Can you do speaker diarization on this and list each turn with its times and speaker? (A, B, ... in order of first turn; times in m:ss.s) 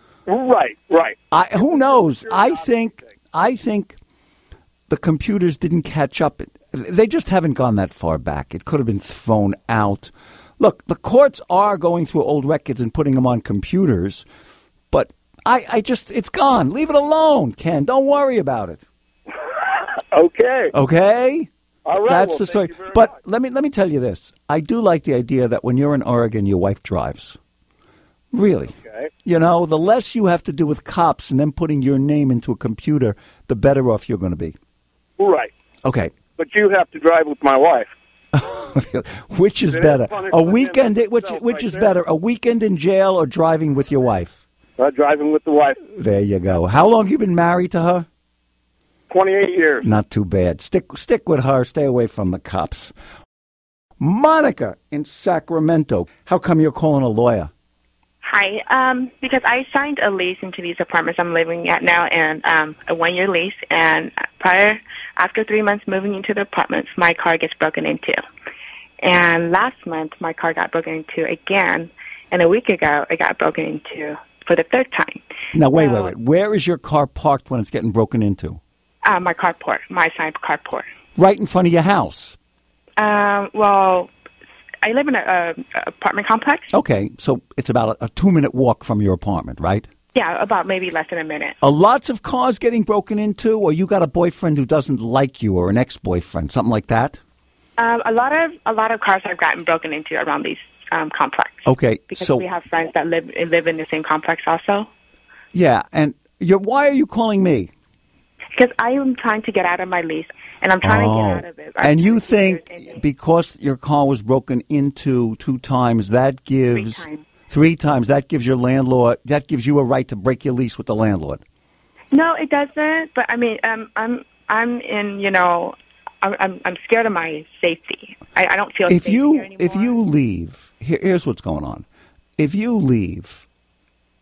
0:00.2-0:02.6 A
0:01.3-0:04.0 B
0:04.9-0:14.2 B
0:14.9-0:18.8 B
0:19.7-0:20.7 A
0:20.7-0:21.5 B
0:21.8-0:23.1 A
0:22.0-0:27.4 B
0:28.3-0:34.6 B
0:28.7-0:29.1 A
0:35.2-0:35.5 A
0:35.8-0:36.1 B
0:36.4-0:37.9 A
0:38.3-0:44.4 B
0:39.7-0:41.9 A
0:44.8-0:45.8 A
0:45.9-0:48.0 B
0:49.1-0:49.9 A
0:49.8-0:52.9 B
0:54.0-0:57.5 B
0:58.2-1:08.2 C
1:09.0-1:15.2 C
1:15.5-1:18.6 B
1:15.7-1:16.1 C
1:19.0-1:20.8 C
1:21.2-1:22.4 B
1:23.0-1:24.1 C
1:24.8-1:26.7 C
1:26.7-1:29.9 B
1:30.1-1:31.6 C
1:31.6-1:37.2 B
1:37.8-1:44.9 C
1:41.6-1:42.4 B
1:45.5-1:47.7 B
1:48.6-1:53.0 C
1:50.8-2:01.4 B
1:56.7-1:57.2 C
2:02.1-2:10.0 C
2:08.9-2:11.8 B
2:12.4-2:13.4 B